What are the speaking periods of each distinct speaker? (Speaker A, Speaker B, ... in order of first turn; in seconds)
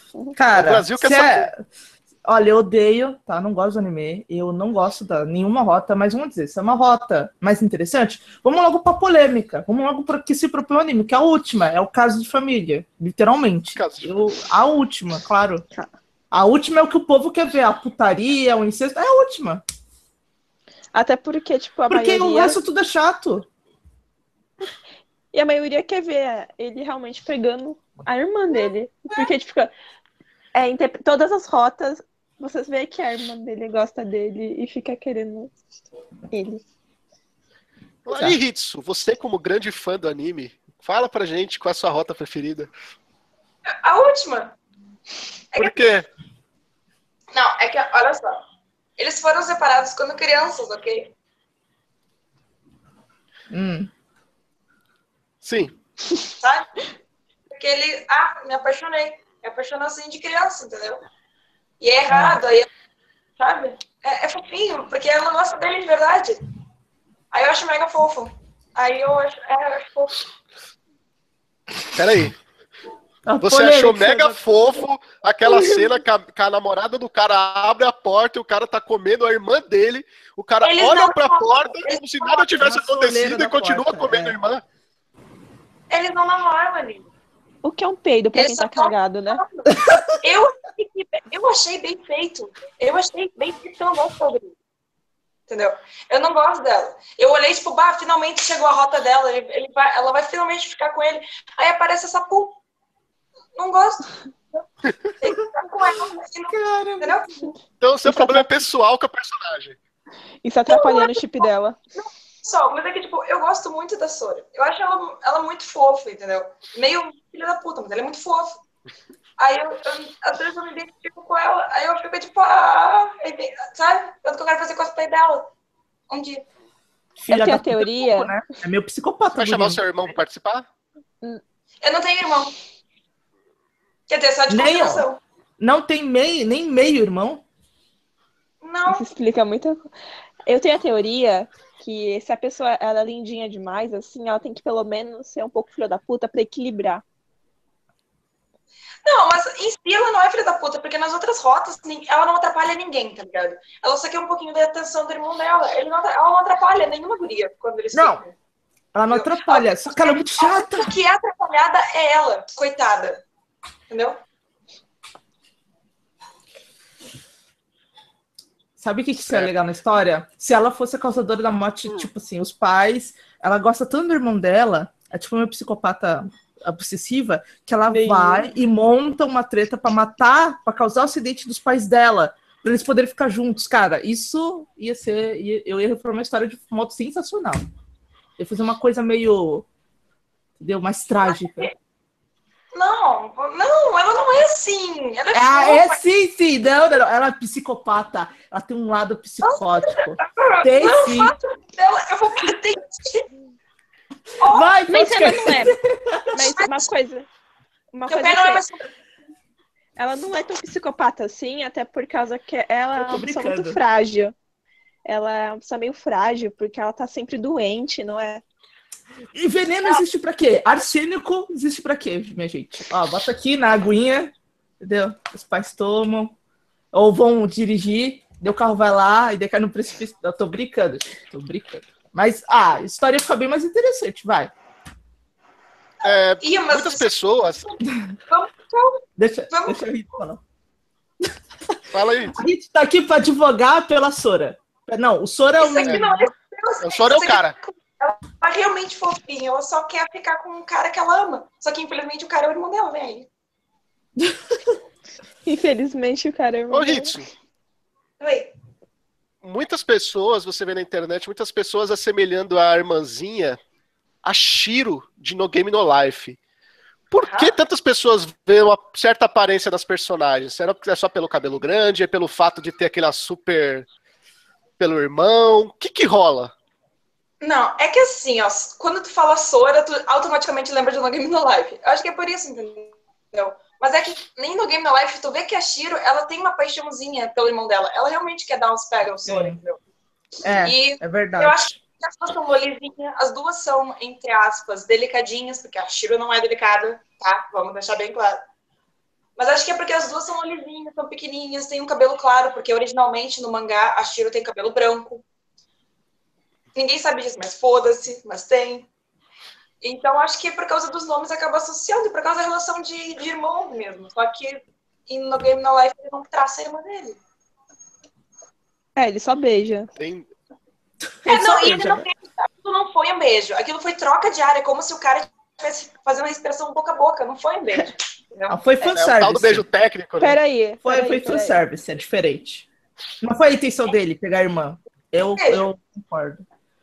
Speaker A: 0.3-1.6, 2.3-15.6, 16.3-19.6, 21.9-23.5, 38.1-38.4, 53.5-53.9, 62.1-62.4, 73.3-74.4, 82.6-84.4, 89.8-90.1, 106.5-107.2, 127.2-129.8, 134.5-135.1, 135.6-137.4, 157.9-158.2, 158.9-160.9, 168.8-187.6, 188.4-189.7, 190.6-191.7, 195.3-201.4, 204.5-206.5, 213.0-213.8, 219.3-226.3, 226.9-234.5, 239.2-240.4, 241.2-241.8, 242.3-246.3, 254.2-254.8, 289.2-289.6, 290.4-291.6, 321.1-322.1, 328.5-329.6, 330.8-332.7, 333.2-336.4
Speaker B: 0.5-1.5, 13.7-14.2, 38.1-42.7, 45.6-46.1, 55.4-55.7, 71.9-72.4, 73.4-84.6, 107.8-109.8, 129.4-130.7, 236.0-237.7, 241.9-242.4, 246.8-247.5, 256.7-257.3, 259.4-263.6, 264.2-266.4, 267.1-273.9, 274.8-276.5, 320.0-320.3, 328.8-330.4
Speaker C: 20.9-22.6, 25.3-29.7, 30.6-35.5, 36.3-36.6, 87.6-89.4, 108.1-108.4, 110.4-111.8, 127.3-128.3, 138.9-139.9, 140.5-147.0, 177.9-178.5, 204.9-205.8, 206.3-207.3, 207.9-208.6, 210.0-214.3, 215.1-218.4, 255.5-257.2, 319.0-319.9, 330.2-331.6
Speaker D: 43.8-44.6, 45.5-45.8, 47.3-48.4, 49.0-51.1, 56.4-56.8, 57.5-61.0, 61.8-62.7, 63.4-66.4, 67.3-70.2, 80.6-82.6, 85.9-87.1, 88.3-94.5, 95.5-102.6, 103.5-104.6, 105.2-107.5, 110.7-111.5, 112.0-118.6, 119.4-125.5, 126.1-126.5, 131.8-132.6, 134.1-135.2, 138.6-139.1, 149.1-158.3, 159.1-163.2, 163.9-164.2, 191.3-191.7, 192.7-196.0, 199.4-203.3, 204.4-205.2, 206.6-206.8, 208.1-208.8, 236.4-237.2, 238.3-239.8, 245.6-253.3, 258.2-258.5, 267.3-267.6, 277.4-289.8, 290.4-298.4, 299.4-305.2, 306.7-308.9, 309.8-317.2, 321.3-328.6, 335.3-335.6